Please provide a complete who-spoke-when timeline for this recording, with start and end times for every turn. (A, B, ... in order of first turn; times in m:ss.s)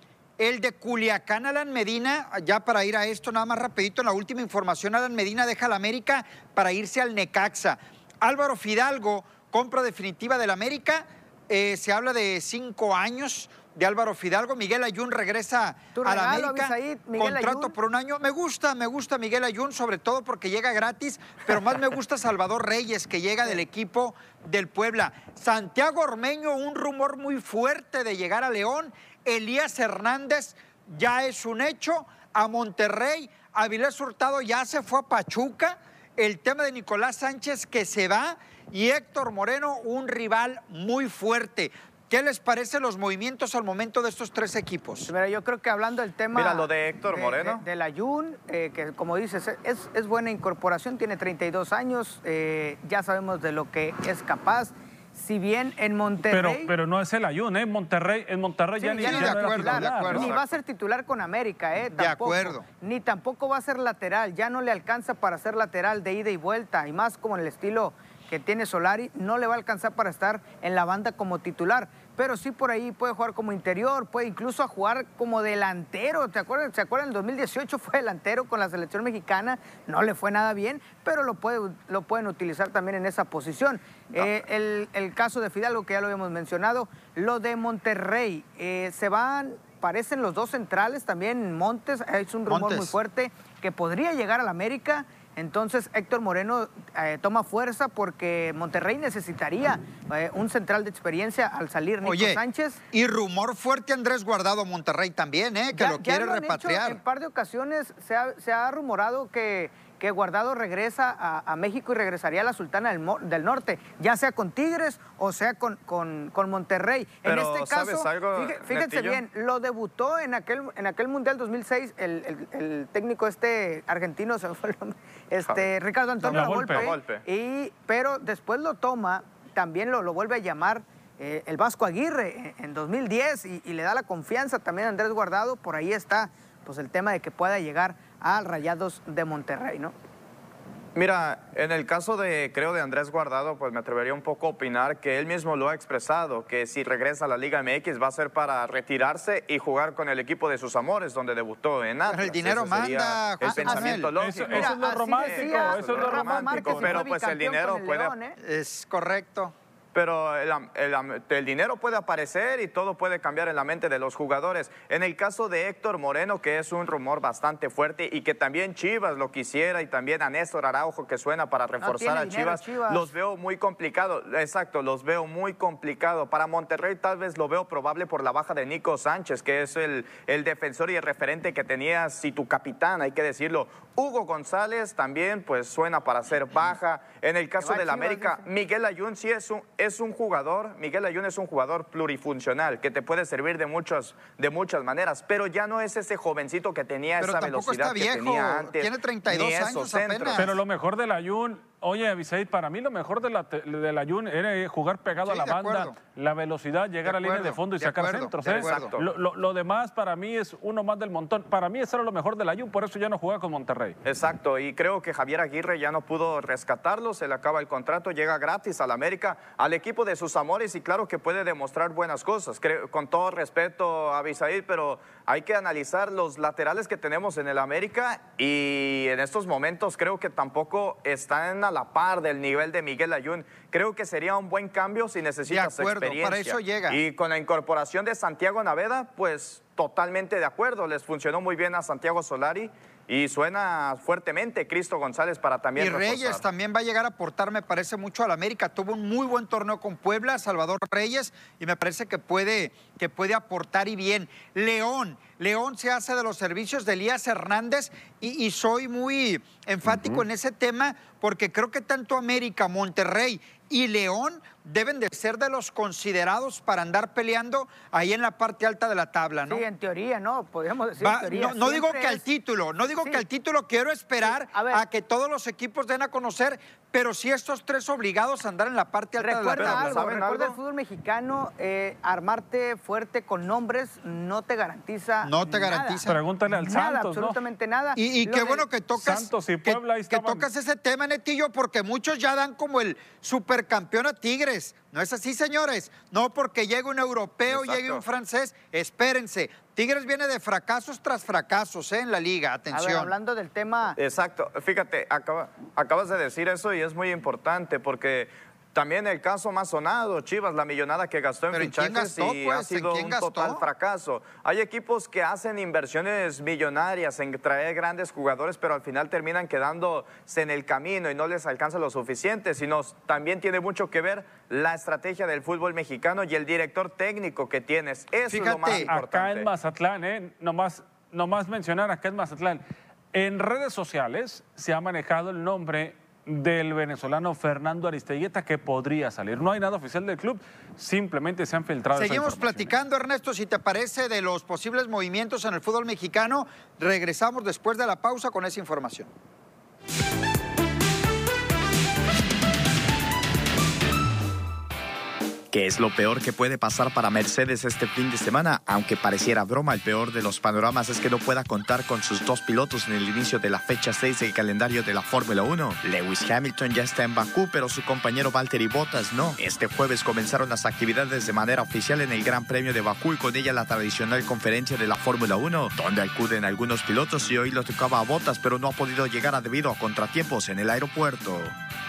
0:00.4-0:45.1 A
0:16.0-0:17.8 B
0:45.1-0:56.7 B
0:46.3-0:47.6 C
0:56.3-1:00.3 D
0:58.8-1:42.8 B
0:59.0-1:00.4 A
1:00.1-1:00.6 C
1:01.9-1:02.7 A
1:32.5-1:33.0 A
1:42.0-1:42.4 A
1:42.9-1:47.0 A
1:45.7-2:19.9 B
1:57.2-1:59.2 C
2:06.2-2:06.9 D
2:06.2-2:07.2 C
2:21.0-2:38.1 C
2:32.1-2:34.1 A
2:33.4-2:38.4 B
2:34.2-2:37.0 D
2:38.4-2:39.5 A
2:39.9-3:20.5 C
2:51.8-2:53.1 B
3:07.6-3:08.5 B
3:17.2-3:20.5 A
3:20.4-3:34.0 D
3:25.2-3:26.0 A
3:27.0-3:28.9 A
3:28.4-3:29.0 C
3:34.0-4:06.4 C
3:55.5-3:57.0 A
4:05.8-4:29.6 A
4:29.5-4:32.2 B
4:31.0-4:40.0 A
4:34.2-4:34.8 B
4:39.2-4:48.6 B
4:39.6-4:40.6 C
4:45.2-4:46.2 A
4:46.0-4:47.4 D
4:48.0-5:03.1 A
4:48.9-4:50.5 D
4:57.5-4:58.0 C
5:02.7-5:04.0 B
5:04.0-5:29.5 C
5:11.5-5:13.6 A
5:28.3-5:28.9 A
5:28.7-5:32.6 D
5:33.1-5:42.7 D
5:41.9-5:49.1 A
5:55.5-6:21.5 C